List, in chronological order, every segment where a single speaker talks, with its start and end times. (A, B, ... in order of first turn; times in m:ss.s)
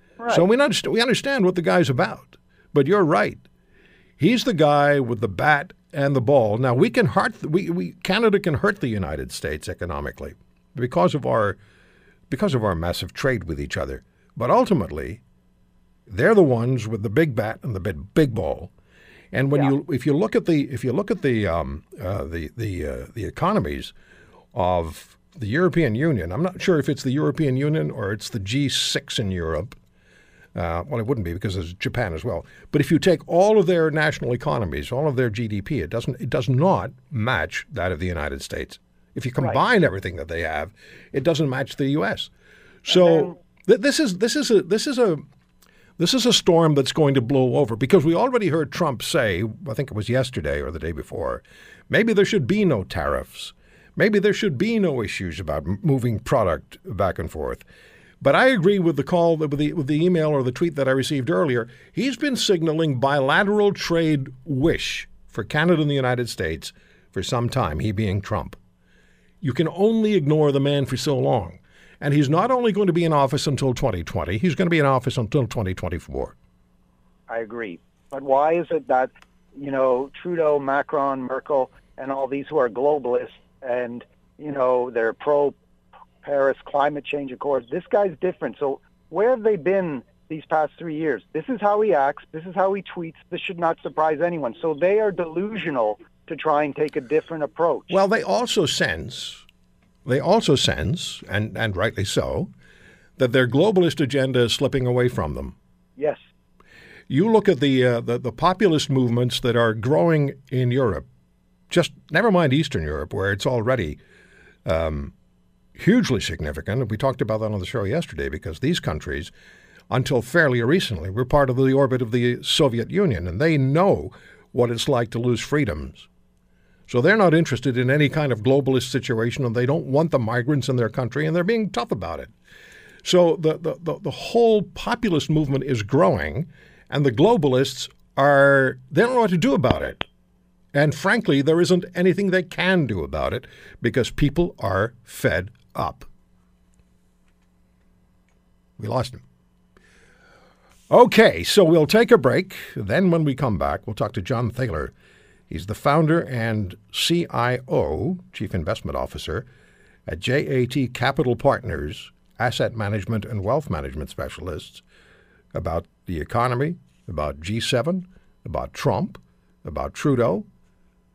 0:00.2-0:00.4 A
0:00.3-0:03.4 B
0:04.2-0:11.6 B
0:12.3-0:15.2 B
0:16.1-0:18.7 B
0:19.3-0:23.9 B
0:24.5-0:29.7 B
0:30.5-0:42.3 B
0:42.9-0:43.4 A
0:42.9-0:45.2 B
0:46.0-0:57.6 B
0:58.2-1:08.6 B
1:09.4-1:16.3 B
1:17.3-1:25.5 A
1:26.2-1:38.0 A
1:37.9-1:39.4 B
1:40.0-1:42.5 B
1:43.2-1:45.5 B
1:46.0-1:46.2 A
1:47.1-1:51.0 B
1:51.7-1:54.0 B
1:54.6-1:55.1 B
1:55.8-1:59.3 B
1:59.9-2:06.1 B
2:06.9-2:12.3 B
2:13.0-2:20.0 B
2:20.7-2:26.1 B
2:28.8-2:29.2 B
2:30.9-2:34.9 B
2:35.5-2:39.4 B
2:40.1-2:44.8 B
2:45.5-2:50.4 B